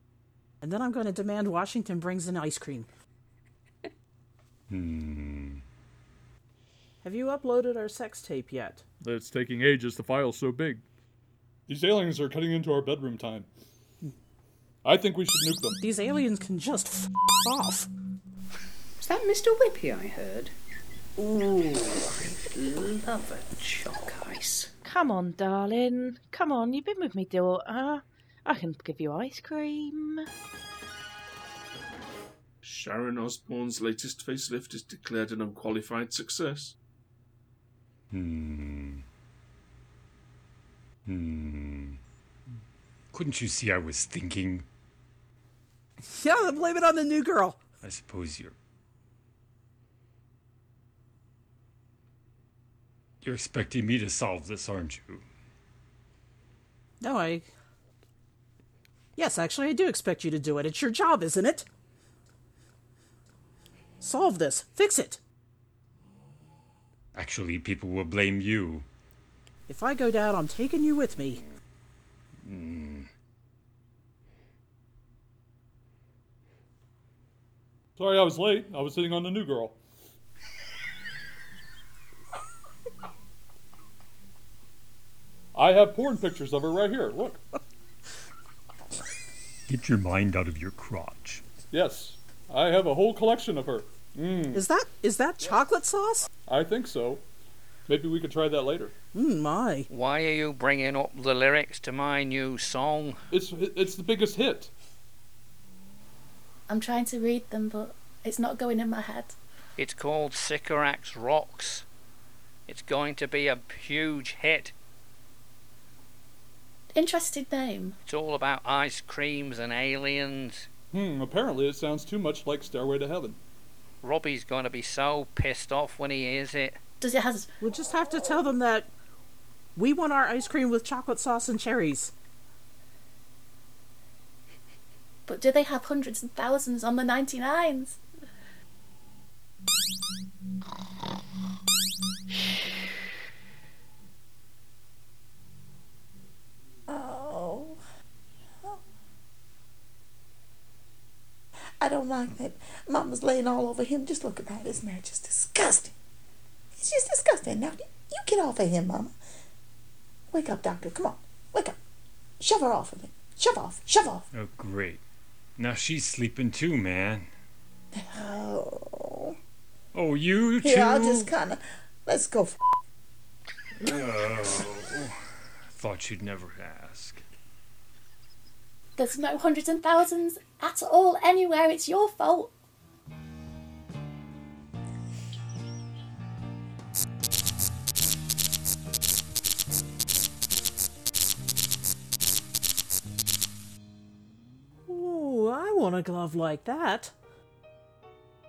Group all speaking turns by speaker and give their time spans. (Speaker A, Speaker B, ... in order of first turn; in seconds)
Speaker A: 0.6-2.9, 7.0-8.8, 15.8-17.9, 46.0-47.6, 57.0-57.5, 59.1-61.6, 64.0-65.2, 69.7-71.4, 94.5-96.3, 99.1-99.9, 127.6-128.9, 129.8-132.1, 194.9-197.1
Speaker B: 4.7-5.6, 38.1-39.0, 41.0-42.0, 43.1-44.6, 47.8-48.5, 53.2-55.2, 67.1-68.8, 72.4-73.1, 89.7-91.4, 164.3-165.0, 165.6-167.3, 169.9-171.3, 173.8-177.2
Speaker C: 9.0-10.8, 11.7-13.5, 14.8-15.8, 78.0-79.8, 85.5-87.4, 91.7-94.6, 96.5-97.2, 97.9-98.9, 103.3-104.7, 120.9-123.4
Speaker D: 19.0-20.5, 21.2-24.7
Speaker E: 24.8-30.3
Speaker F: 32.6-36.8
Speaker G: 99.9-103.2, 109.8-111.8, 112.7-114.7, 118.0-120.7, 124.0-126.8
Speaker H: 106.7-109.3, 116.9-118.0, 127.0-127.5, 135.3-138.0, 179.0-182.5
Speaker I: 146.9-147.8, 151.8-155.9, 156.8-159.1, 160.3-161.8, 162.4-164.2, 167.9-169.3, 170.6-172.6